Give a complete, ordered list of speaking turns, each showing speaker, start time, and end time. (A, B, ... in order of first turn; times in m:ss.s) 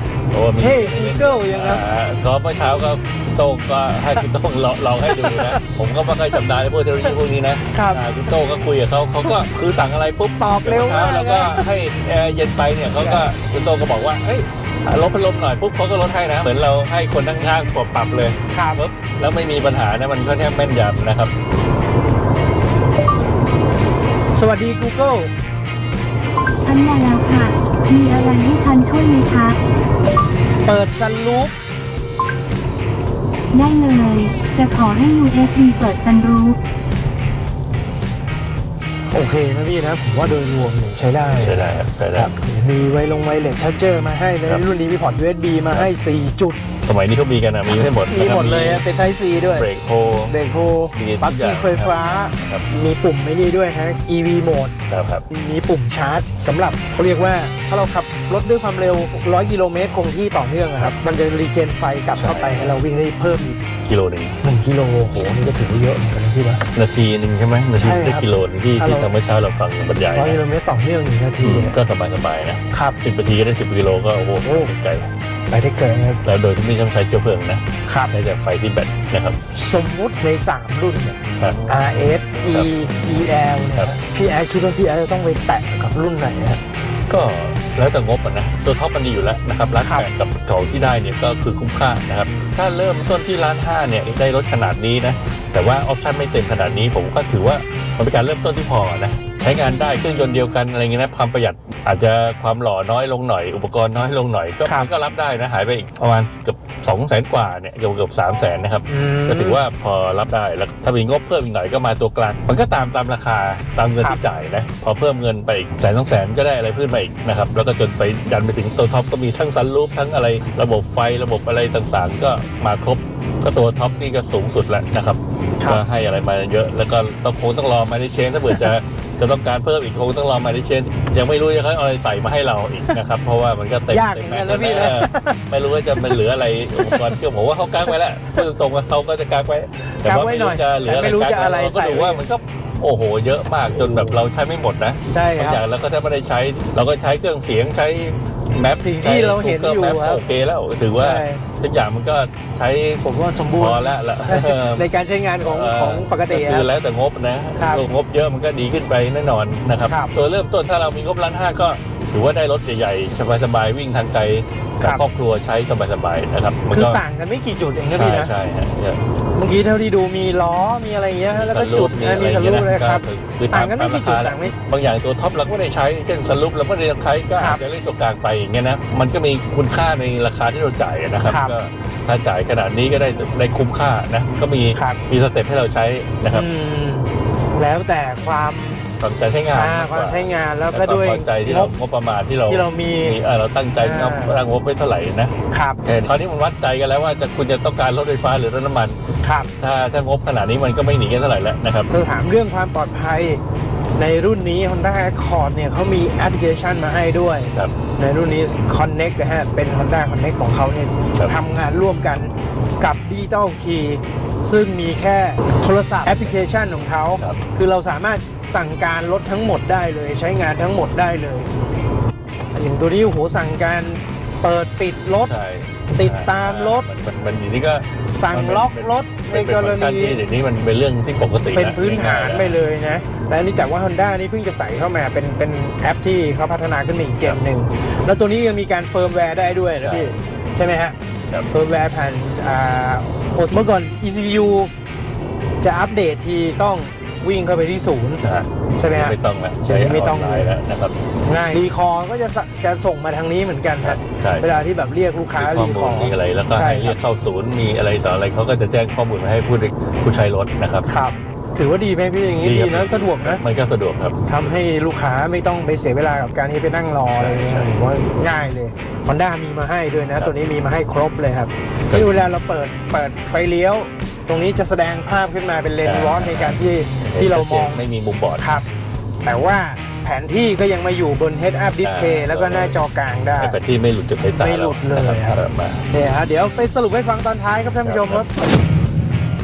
0:00.3-0:21.3 A
0:00.6-0:01.8 B
0:05.1-0:05.6 B
0:07.7-0:08.1 B
0:10.4-0:11.7 B
0:12.9-0:13.3 B
0:18.5-0:18.8 B
0:24.3-0:25.3 B
0:26.6-0:29.6 C
0:30.6-0:31.5 B
0:33.5-0:36.6 C
0:39.1-0:46.6 B
0:41.4-0:42.3 A
0:46.8-0:48.8 A
0:48.1-0:49.7 B
0:49.5-0:50.4 A
0:50.3-0:54.7 B
0:50.9-0:52.7 A
0:54.9-0:55.2 A
0:55.3-1:03.6 B
1:02.2-1:02.8 A
1:03.9-1:04.4 A
1:04.4-1:06.6 B
1:06.7-1:10.4 A
1:07.8-1:09.1 B
1:10.2-1:11.8 B
1:11.4-1:15.1 A
1:12.7-1:13.0 B
1:14.4-1:14.7 B
1:15.5-1:16.2 B
1:16.2-1:19.4 A
1:19.5-1:26.6 B
1:21.4-1:21.8 A
1:27.1-2:33.0 A
1:29.8-1:30.1 B
1:48.9-1:49.6 B
2:13.9-2:15.4 B
2:16.0-2:16.2 B
2:16.8-2:17.2 B
2:17.9-2:18.4 B
2:20.0-2:22.2 B
2:23.7-2:24.2 B
2:25.1-2:25.6 B
2:28.7-2:30.2 B
2:31.0-2:31.4 B
2:33.0-2:36.7 B
2:33.6-2:34.9 A
2:35.4-2:47.0 A
2:37.6-2:37.9 B
2:44.8-2:45.1 B
2:46.7-2:48.3 B
2:47.9-2:49.0 A
2:49.4-2:54.5 B
2:51.3-3:06.5 A
2:57.4-2:57.6 B
3:01.3-3:01.5 B
3:04.7-3:05.0 B
3:06.3-3:08.8 B
3:09.0-3:19.0 A
3:09.5-3:11.7 B
3:12.5-3:13.2 B
3:13.8-3:14.4 B
3:15.5-3:15.8 B
3:19.2-3:19.5 B
3:19.6-3:21.9 A
3:21.9-3:23.4 B
3:24.0-3:41.5 B
3:42.5-3:45.3 B
3:45.2-3:52.6 A
3:45.9-3:46.9 B
3:48.1-3:50.2 B
3:51.5-4:01.0 B
3:59.8-4:00.2 A
4:01.5-4:04.7 B
4:05.6-4:08.2 B
4:08.2-4:11.0 A
4:08.8-4:10.6 B
4:11.3-4:17.0 B
4:13.8-4:14.5 A
4:15.4-4:20.9 A
4:20.9-4:23.4 B
4:22.4-4:24.6 A
4:24.3-4:37.8 B
4:27.1-4:27.7 A
4:35.8-4:38.6 A
4:38.4-4:38.7 B
4:39.2-4:43.6 B
4:41.8-4:42.8 A
4:43.4-4:45.9 A
4:44.3-4:48.3 B
4:47.8-4:48.2 A